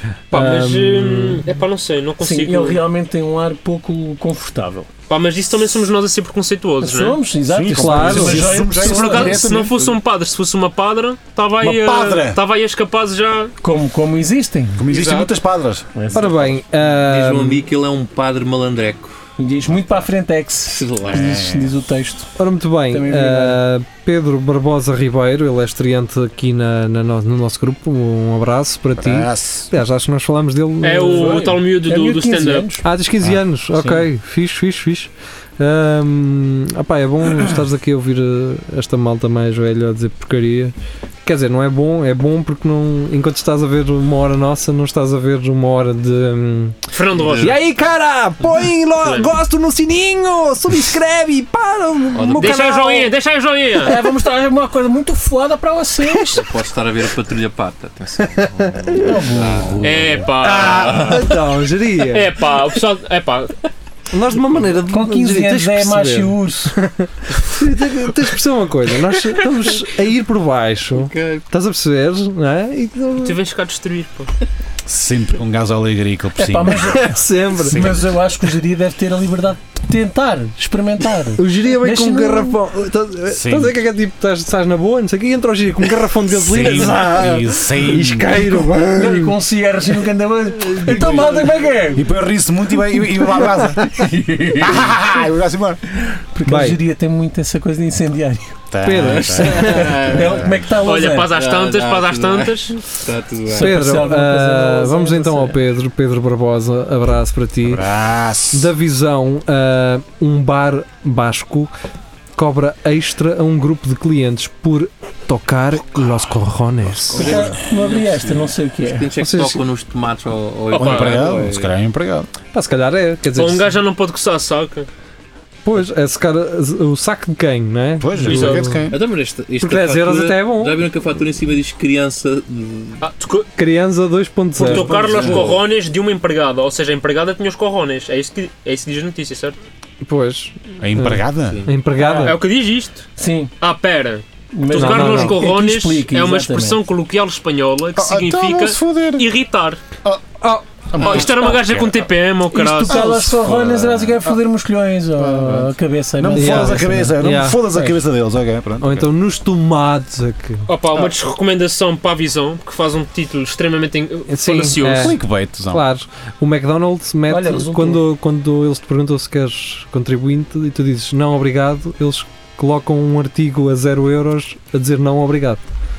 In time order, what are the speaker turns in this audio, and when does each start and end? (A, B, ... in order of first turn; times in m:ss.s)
0:00.3-0:01.4 A
0:00.3-0:02.8 B
0:02.2-0:04.9 C
0:05.1-0:07.2 B
0:06.8-0:09.4 C
0:07.4-0:10.0 D
0:07.7-0:08.6 A
0:08.7-0:13.5 B
0:11.6-0:12.4 D
0:13.6-0:14.9 C
0:14.8-0:15.9 D
0:14.9-0:15.3 B
0:15.9-0:16.6 C
0:16.1-0:17.7 A
0:17.0-0:19.2 E
0:19.4-0:22.3 C
0:20.7-0:21.4 E
0:21.1-0:21.8 D
0:22.4-0:31.4 A
0:22.9-0:23.6 C
0:29.0-0:29.7 D
0:30.8-0:32.7 B
0:31.1-0:32.8 C
0:32.8-0:40.7 A
0:41.2-0:53.1 A
0:46.9-0:47.6 B
0:47.2-0:47.6 E
0:49.0-0:49.3 B
0:52.1-0:52.6 E
0:52.4-0:54.0 B
0:53.8-0:56.6 C
0:56.3-1:01.4 E
0:58.4-0:59.1 A
0:59.0-1:00.1 C
0:59.8-1:01.3 B
1:00.4-1:02.4 A
1:02.1-1:03.6 B
1:04.1-1:13.4 A
1:04.9-1:06.8 C
1:10.9-1:11.4 E
1:13.2-1:14.3 B
1:14.8-1:16.9 D
1:16.4-1:22.6 C
1:16.9-1:17.9 A
1:17.6-1:18.2 D
1:21.4-1:29.3 A
1:23.3-1:23.8 D
1:26.3-1:28.6 D
1:29.0-1:32.1 C
1:30.6-1:31.4 A
1:30.9-1:31.4 D
1:31.9-1:34.0 D
1:33.4-1:35.2 C
1:34.6-1:35.8 D
1:36.1-1:38.6 C
1:36.4-1:36.8 A
1:38.7-1:40.7 D
1:38.8-1:40.0 A
1:39.0-1:40.4 E
1:39.5-1:41.3 C
1:40.8-1:42.8 B
1:41.3-1:43.8 E
1:43.5-1:45.6 C
1:43.6-1:47.8 A
1:47.6-1:48.7 D
1:48.5-1:51.7 A
1:52.4-1:57.3 A
1:56.9-1:57.6 D
1:57.1-2:01.7 E
1:57.2-1:59.1 C
1:59.2-1:59.6 A
2:00.7-2:02.3 D
2:00.7-2:01.2 B
2:02.5-2:03.7 A
2:03.4-2:04.9 B
2:05.6-2:08.8 A
2:08.0-2:09.0 D
2:08.2-2:08.7 B
2:08.9-2:13.0 E
2:09.6-2:10.8 A
2:13.0-2:13.5 B
2:13.6-2:14.9 A
2:14.6-2:19.6 B
2:14.7-2:15.4 C
2:14.8-2:15.6 D
2:15.0-2:15.6 E
2:20.0-2:22.4 A
2:20.8-2:21.6 D
2:21.5-2:21.7 E
2:22.0-2:22.4 C
2:22.0-2:29.8 B
2:23.2-2:23.5 C
2:24.5-2:26.8 C
2:24.7-2:25.4 A
2:28.0-2:29.3 D
2:30.9-2:32.1 D
2:31.0-2:33.1 B
2:32.5-2:37.2 C
2:32.9-2:34.4 D
2:35.1-2:39.1 D
2:36.3-2:37.6 A
2:38.8-2:40.7 A
2:40.7-2:45.2 B
2:44.3-2:55.6 A
2:44.9-2:45.8 D
2:47.3-2:48.0 C